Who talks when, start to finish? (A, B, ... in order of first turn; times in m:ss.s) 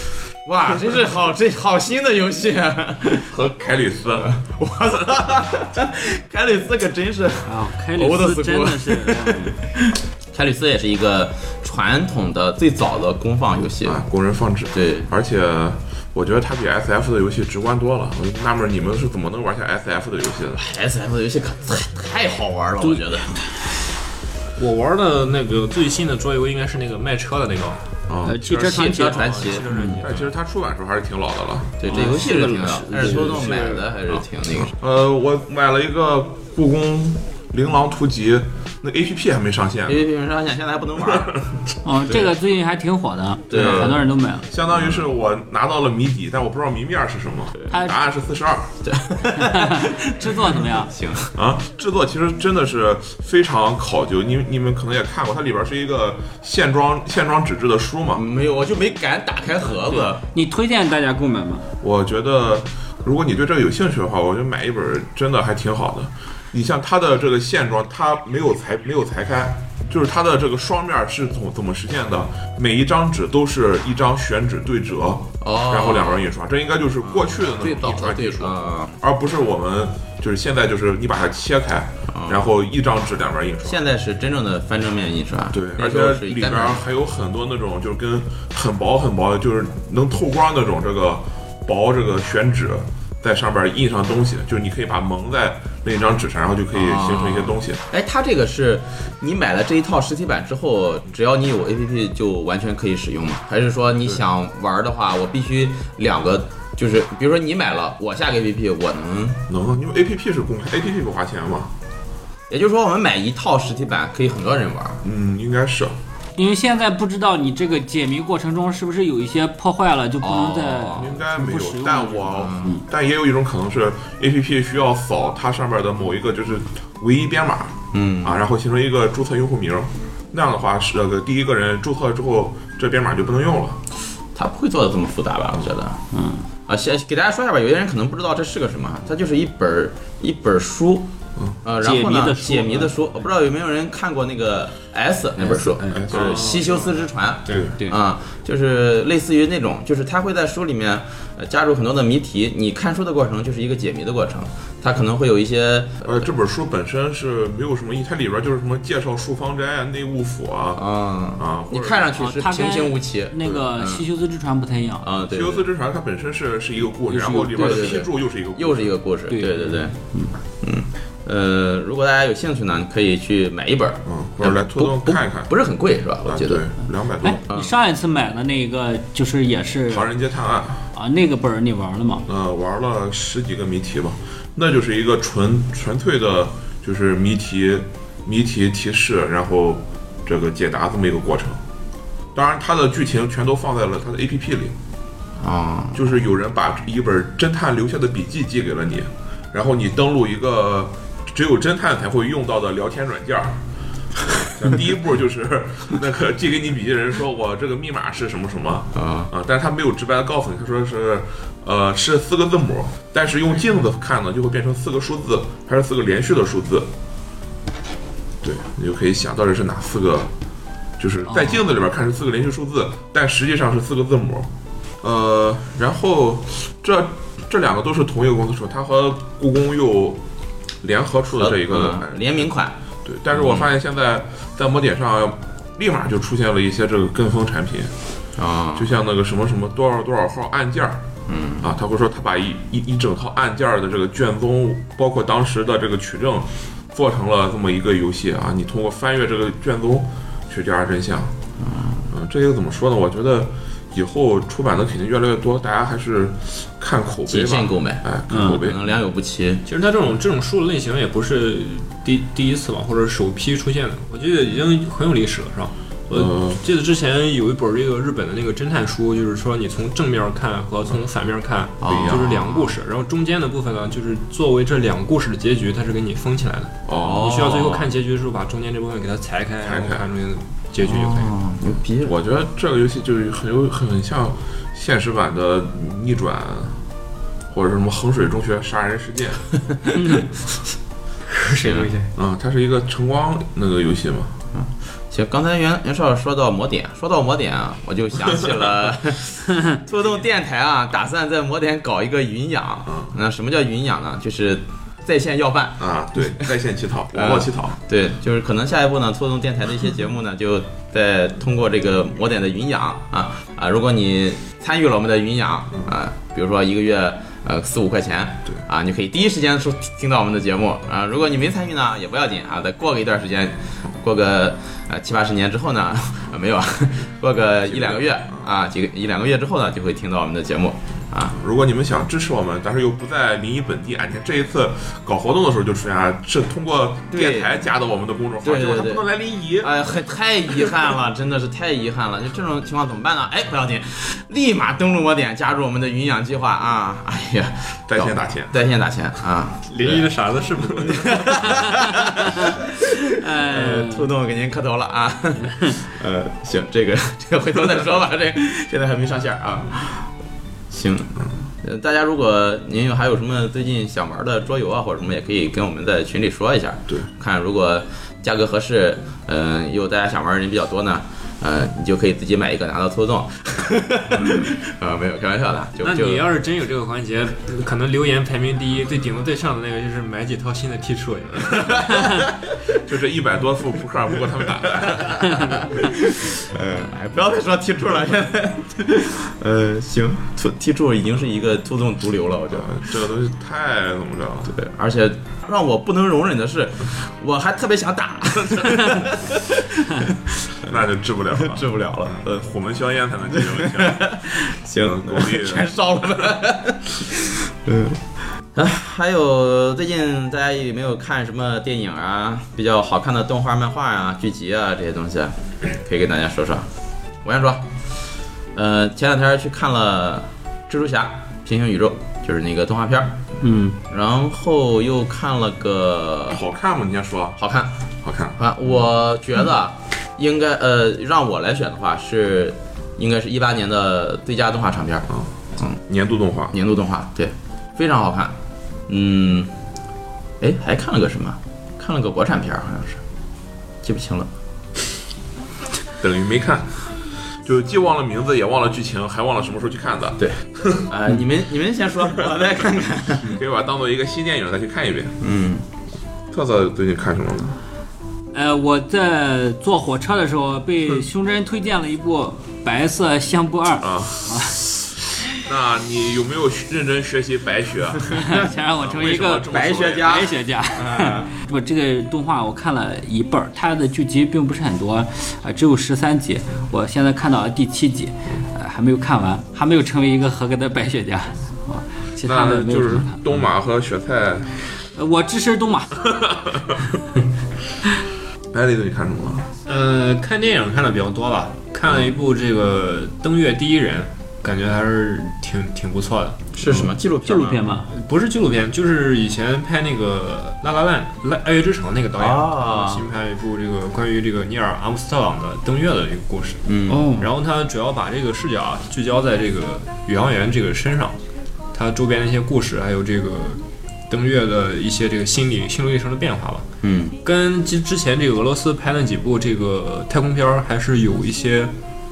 0:00.4-0:03.5 A
0:03.3-0:04.3 B
0:04.1-0:14.0 A
0:07.4-0:09.6 C
0:13.8-0:20.6 B
0:14.7-0:15.1 A
0:20.5-0:23.4 A
0:24.6-0:27.8 D
0:28.1-0:28.4 B
0:28.2-0:30.0 C
0:28.4-0:30.0 A
0:29.0-0:30.2 D
0:30.0-0:31.9 B
0:31.8-0:34.7 A
0:31.9-0:33.7 C
0:32.0-0:33.8 D
0:34.6-0:40.0 B
0:39.9-0:41.5 A
0:41.0-0:41.4 B
0:41.8-0:44.5 C
0:43.5-0:44.0 A
0:43.5-0:48.8 B
0:44.7-0:45.0 A
0:47.7-0:48.0 C
0:48.8-0:51.3 A
0:49.4-0:50.9 C
0:51.3-0:58.2 B
0:58.1-1:00.2 A
0:59.9-1:01.6 C
1:01.8-1:23.8 B
1:15.4-1:16.2 A
1:17.0-1:19.0 A
1:22.1-1:22.5 A
1:23.6-1:26.8 A
1:25.5-1:37.8 B
1:36.7-1:49.4 A
1:49.5-1:51.7 B
1:52.5-1:55.0 A
1:55.0-1:56.0 B
1:56.4-2:02.8 C
2:00.2-2:01.1 A
2:00.9-2:13.8 B
2:02.3-2:02.8 A
2:07.9-2:08.4 A
2:14.3-2:16.0 A
2:16.1-2:16.4 C
2:16.7-2:21.1 A
2:21.6-2:36.0 A
2:21.8-2:23.0 C
2:25.4-2:26.0 C
2:25.9-2:26.6 B
2:26.1-2:27.7 D
2:27.5-2:27.8 B
2:36.0-2:40.8 B
2:40.8-2:44.1 A
2:41.4-2:42.1 B
2:42.2-2:45.0 C
2:45.0-2:45.7 A
2:45.2-2:49.0 B
2:47.1-2:48.0 C
2:47.5-2:50.0 A
2:49.3-2:50.3 C
2:50.6-2:56.7 A
2:54.1-2:55.5 B
2:56.2-2:57.4 B
2:57.2-3:00.1 C
2:57.5-2:57.7 A
2:59.9-3:00.8 B
3:00.9-3:02.2 C
3:02.3-3:11.6 B
3:12.3-3:14.8 B
3:15.4-3:16.0 A
3:15.9-3:23.6 B
3:24.4-3:36.9 B
3:29.0-3:29.3 A
3:38.4-3:40.3 B
3:41.0-3:44.5 B
3:45.0-3:50.2 B
3:50.8-3:52.5 B
3:51.4-3:52.8 A
3:53.0-3:57.9 B
3:53.3-3:53.7 A
3:58.4-3:58.9 A
3:58.8-4:01.0 B
4:01.3-4:01.7 A
4:01.6-4:11.3 B
4:11.6-4:12.1 A
4:12.1-4:18.8 B
4:17.3-4:19.6 A
4:18.3-4:18.6 C
4:19.6-4:41.3 D
4:26.1-4:26.6 B
4:31.8-4:32.7 A
4:31.8-4:32.3 B
4:36.9-4:37.3 B
4:37.0-4:37.9 A
4:39.6-4:40.0 B
4:40.8-4:42.1 A
4:42.0-4:46.8 B
4:47.5-4:49.5 B
4:51.3-4:52.1 D
4:51.6-4:51.9 A
4:52.2-4:54.4 B
4:54.5-5:06.4 A
5:02.9-5:03.2 B
5:05.8-5:07.8 B
5:07.1-5:31.4 A
5:27.7-5:28.5 B
5:31.3-5:39.7 B
5:37.1-5:37.5 A
5:38.4-5:39.1 A
5:39.6-5:50.1 A
5:47.9-5:48.6 B
5:49.7-5:51.5 D
5:50.7-6:00.1 A
5:53.2-5:54.1 C
6:00.7-6:16.3 A
6:15.8-6:22.1 D
6:21.5-6:22.6 A
6:22.8-6:25.6 B
6:24.8-6:32.8 A
6:32.5-6:34.6 B
6:34.5-6:40.8 A
6:40.6-6:44.2 B
6:41.4-6:42.2 A
6:43.4-6:56.7 A
6:44.8-6:45.7 B
6:57.2-6:57.7 A
6:58.5-7:03.2 A
7:03.4-7:03.8 C
7:03.9-7:06.4 A
7:06.3-7:07.4 B
7:07.4-7:07.7 A
7:08.0-7:08.4 B
7:08.4-7:15.8 A
7:15.8-7:16.6 B
7:16.5-7:18.4 A
7:18.9-7:19.5 A
7:20.4-7:23.0 A
7:23.8-7:24.3 A
7:26.0-7:26.8 B
7:27.4-7:30.9 B
7:30.2-7:33.4 A
7:33.2-7:35.2 B
7:35.2-7:35.6 A
7:36.3-7:37.6 B
7:38.3-7:44.6 C
7:43.8-7:44.6 B
7:45.3-7:50.3 B
7:48.3-8:03.2 C
7:49.5-7:51.3 A
8:02.2-8:04.5 B
8:04.9-8:06.0 C
8:06.3-8:06.7 B
8:08.5-8:09.5 B
8:09.7-8:16.8 D
8:16.5-8:17.6 A
8:17.2-8:17.9 C
8:17.9-8:31.2 D
8:22.2-8:23.0 A
8:26.7-8:27.1 A
8:26.9-8:27.3 C
8:31.7-8:36.7 D
8:36.8-8:37.2 A
8:37.2-8:41.7 D